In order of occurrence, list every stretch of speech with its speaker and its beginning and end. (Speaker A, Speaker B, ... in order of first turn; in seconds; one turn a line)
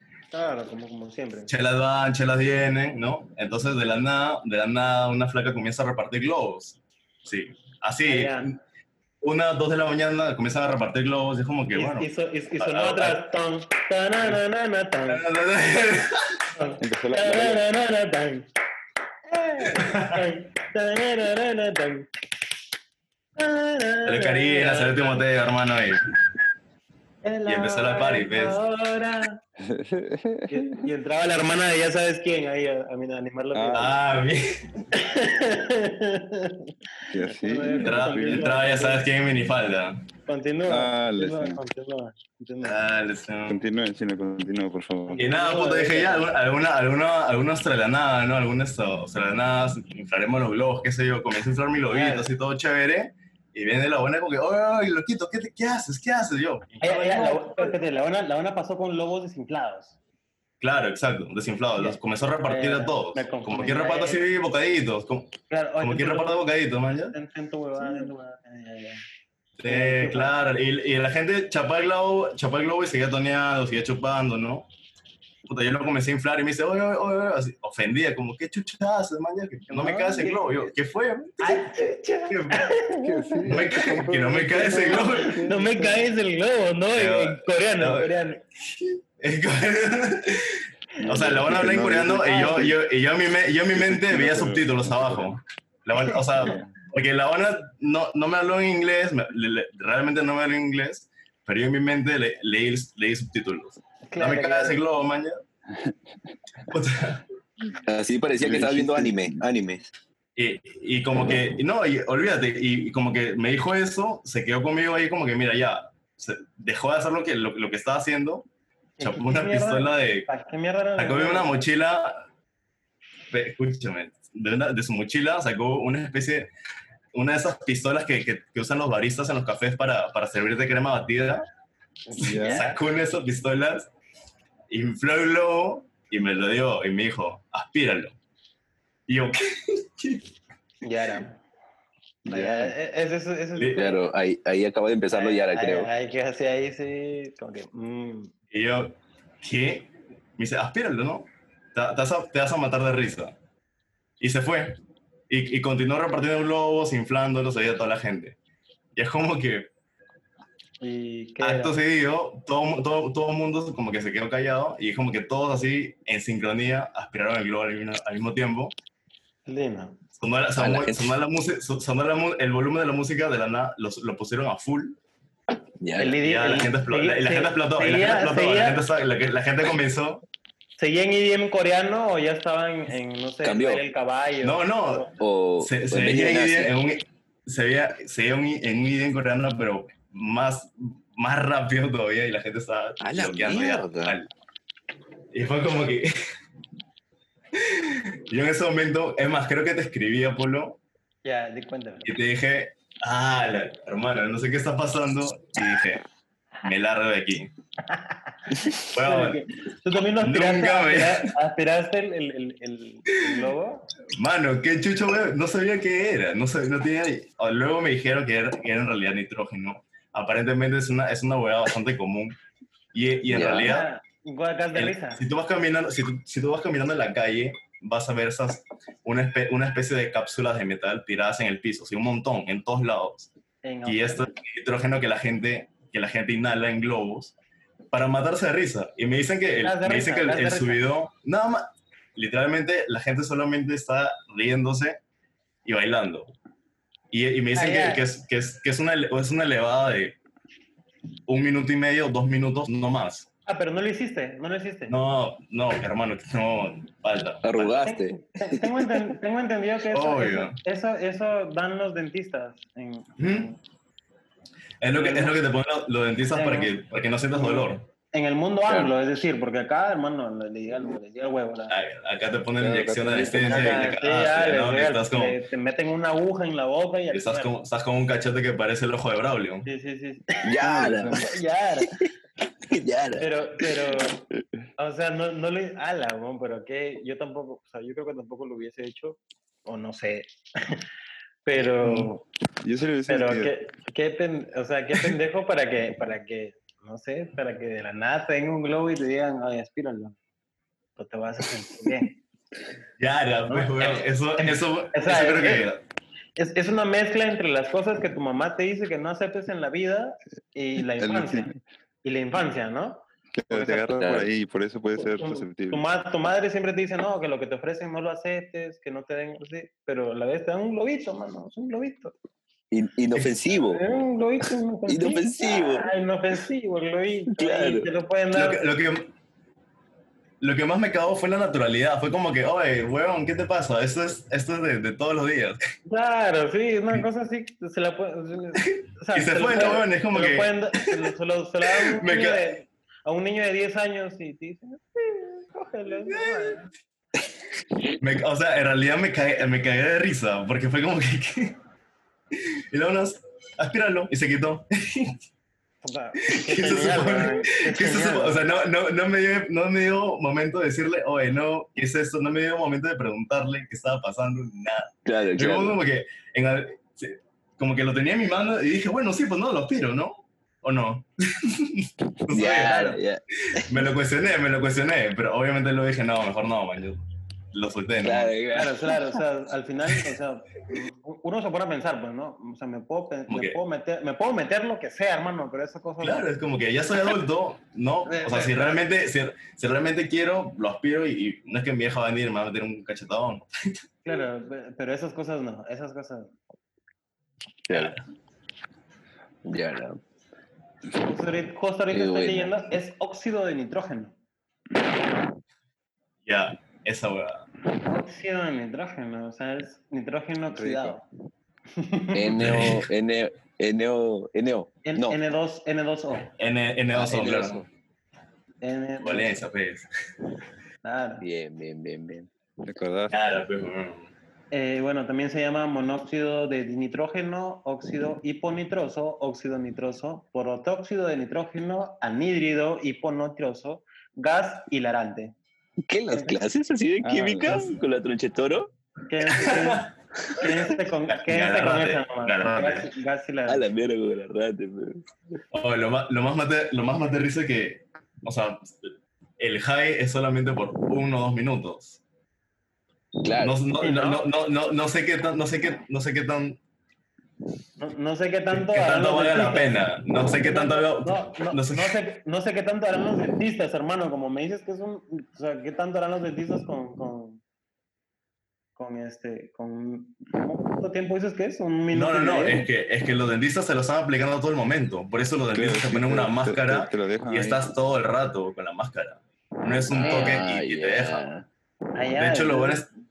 Speaker A: 0.3-1.5
Speaker B: 1.5-8.6
Speaker A: 8.0-8.5
Speaker B: 9.2-12.1
Speaker A: 11.7-15.2
Speaker B: 12.6-13.2
Speaker B: 15.1-16.4
Speaker A: 16.5-18.5
Speaker C: 16.8-17.6
Speaker A: 19.3-22.1
Speaker B: 19.8-20.2
Speaker A: 23.4-25.2
Speaker B: 24.1-26.0
Speaker A: 27.2-29.4
Speaker B: 27.4-28.6
Speaker C: 29.6-30.9
Speaker A: 30.5-34.0
Speaker C: 33.5-34.0
Speaker B: 33.7-34.6
Speaker A: 34.9-36.7
Speaker C: 37.1-38.6
Speaker A: 37.2-39.1
Speaker B: 37.7-40.0
Speaker A: 40.3-42.8
Speaker C: 40.7-41.6
Speaker B: 42.6-43.6
Speaker C: 43.5-45.3
Speaker A: 45.1-46.3
Speaker B: 45.2-57.8
Speaker A: 51.9-52.3
Speaker A: 56.8-60.0
Speaker B: 60.6-67.1
Speaker A: 61.8-64.2
Speaker A: 65.5-66.4
Speaker A: 67.1-69.0
Speaker B: 69.6-74.7
Speaker A: 69.7-70.3
Speaker B: 75.5-82.7
Speaker A: 79.7-80.7
Speaker A: 81.4-83.6
Speaker C: 83.0-86.0
Speaker B: 83.5-85.4
Speaker A: 84.8-88.4
Speaker B: 86.9-105.4
Speaker C: 91.0-92.8
Speaker A: 92.2-92.7
Speaker C: 93.7-95.4
Speaker C: 96.4-96.7
Speaker A: 104.1-104.8
Speaker C: 105.7-106.3
Speaker B: 106.7-107.2
Speaker D: 107.8-109.9
Speaker C: 108.4-109.4
Speaker B: 110.3-118.5
Speaker A: 119.0-121.6
Speaker B: 119.0-120.3
Speaker B: 121.0-122.2
Speaker B: 123.3-126.5
Speaker B: 127.1-131.4
Speaker A: 132.1-132.8
Speaker C: 132.2-132.7
Speaker B: 132.2-133.9
Speaker B: 134.7-138.1
Speaker B: 139.1-140.2
Speaker A: 140.8-141.4
Speaker C: 142.2-142.7
Speaker A: 142.3-144.0
Speaker B: 143.6-143.8
Speaker D: 143.7-145.9
Speaker A: 145.1-148.3
Speaker B: 148.5-153.3
Speaker B: 154.2-158.3
Speaker B: 158.9-159.7
Speaker A: 160.8-161.8
Speaker B: 161.4-168.7
Speaker A: 169.4-170.0
Speaker B: 170.2-175.0
Speaker D: 170.6-171.2
Speaker D: 175.8-176.2
Speaker A: 176.0-178.8
Speaker B: 176.2-180.2
Speaker A: 180.8-185.1
Speaker D: 183.4-183.8
Speaker B: 184.4-194.3
Speaker D: 185.2-186.7
Speaker D: 193.0-194.2
Speaker B: 195.3-196.1
Speaker B: 197.6-200.8
Speaker A: 201.2-202.1
Speaker B: 202.0-206.0
Speaker B: 206.6-207.5
Speaker A: 207.9-213.9
Speaker B: 208.8-209.4
Speaker B: 210.2-211.3
Speaker B: 214.1-222.3
Speaker B: 222.9-223.9
Speaker D: 223.3-223.7
Speaker A: 223.6-225.2
Speaker B: 224.7-233.3
Speaker A: 233.6-234.3
Speaker B: 233.8-237.3
Speaker B: 237.9-245.0
Speaker A: 239.6-240.8
Speaker B: 245.6-246.3
Speaker B: 247.1-250.2
Speaker A: 247.5-248.1
Speaker B: 251.3-253.3
Speaker A: 253.5-254.9
Speaker B: 254.9-257.7
Speaker D: 257.4-259.1
Speaker A: 257.8-263.6
Speaker B: 259.9-260.6
Speaker B: 263.2-263.5
Speaker B: 264.8-267.9
Speaker A: 264.9-265.4
Speaker A: 266.3-266.8
Speaker A: 267.3-271.7
Speaker D: 268.7-268.9
Speaker B: 271.7-275.4
Speaker C: 272.6-273.8
Speaker D: 273.0-273.3
Speaker A: 273.4-277.5
Speaker B: 277.1-279.7
Speaker A: 279.6-280.6
Speaker D: 280.4-281.3
Speaker C: 280.6-281.4
Speaker A: 281.2-282.0
Speaker D: 282.7-283.6
Speaker A: 283.2-284.2
Speaker A: 284.8-290.8
Speaker A: 291.4-292.2
Speaker C: 291.8-292.1
Speaker C: 292.6-293.5
Speaker A: 293.1-300.1
Speaker A: 301.0-302.2
Speaker B: 303.0-305.8
Speaker A: 303.5-305.7
Speaker A: 306.4-311.5
Speaker C: 310.9-311.6
Speaker A: 312.0-314.0
Speaker C: 313.3-315.8
Speaker D: 313.9-314.3
Speaker A: 315.0-322.1
Speaker D: 322.7-323.9
Speaker A: 323.6-328.6
Speaker D: 324.9-325.9
Speaker D: 327.4-327.9
Speaker B: 328.3-329.1
Speaker B: 330.4-335.6
Speaker A: 335.9-346.7
Speaker B: 338.7-341.0
Speaker B: 341.7-342.4
Speaker B: 348.0-351.6
Speaker B: 352.4-355.2
Speaker A: 355.8-358.4
Speaker B: 356.2-373.0
Speaker D: 365.1-365.8
Speaker D: 372.3-373.9
Speaker B: 373.5-378.3
Speaker D: 378.0-379.2
Speaker A: 378.5-386.2
Speaker B: 383.3-383.6
Speaker B: 386.0-393.7
Speaker A: 388.1-388.8
Speaker A: 394.0-396.3
Speaker D: 397.7-398.0
Speaker B: 397.7-398.0
Speaker D: 399.4-400.0
Speaker A: 400.9-404.1
Speaker D: 401.9-402.6
Speaker B: 406.2-407.4
Speaker A: 407.8-411.0
Speaker C: 410.5-411.0
Speaker A: 411.8-412.5
Speaker D: 412.1-415.2
Speaker B: 412.3-412.9
Speaker A: 414.8-416.3
Speaker B: 416.4-417.6
Speaker D: 416.9-417.7
Speaker A: 418.6-419.4
Speaker B: 419.0-419.9
Speaker A: 420.8-421.2
Speaker D: 421.2-422.3
Speaker C: 422.6-423.2
Speaker B: 423.1-424.1
Speaker A: 424.5-435.3
Speaker D: 435.9-438.7
Speaker A: 436.1-436.4
Speaker C: 437.0-437.8
Speaker A: 439.1-443.6
Speaker B: 439.4-439.9
Speaker B: 441.1-442.9
Speaker D: 443.5-445.1
Speaker B: 445.5-452.0
Speaker D: 453.2-453.6
Speaker B: 453.4-456.6
Speaker A: 453.8-454.3
Speaker A: 457.8-459.8
Speaker B: 458.5-461.9
Speaker A: 460.4-467.4
Speaker A: 468.8-472.7
Speaker B: 471.9-481.2
Speaker C: 475.5-477.8
Speaker D: 479.9-481.4
Speaker A: 480.0-480.4
Speaker A: 481.9-482.9
Speaker B: 482.1-482.9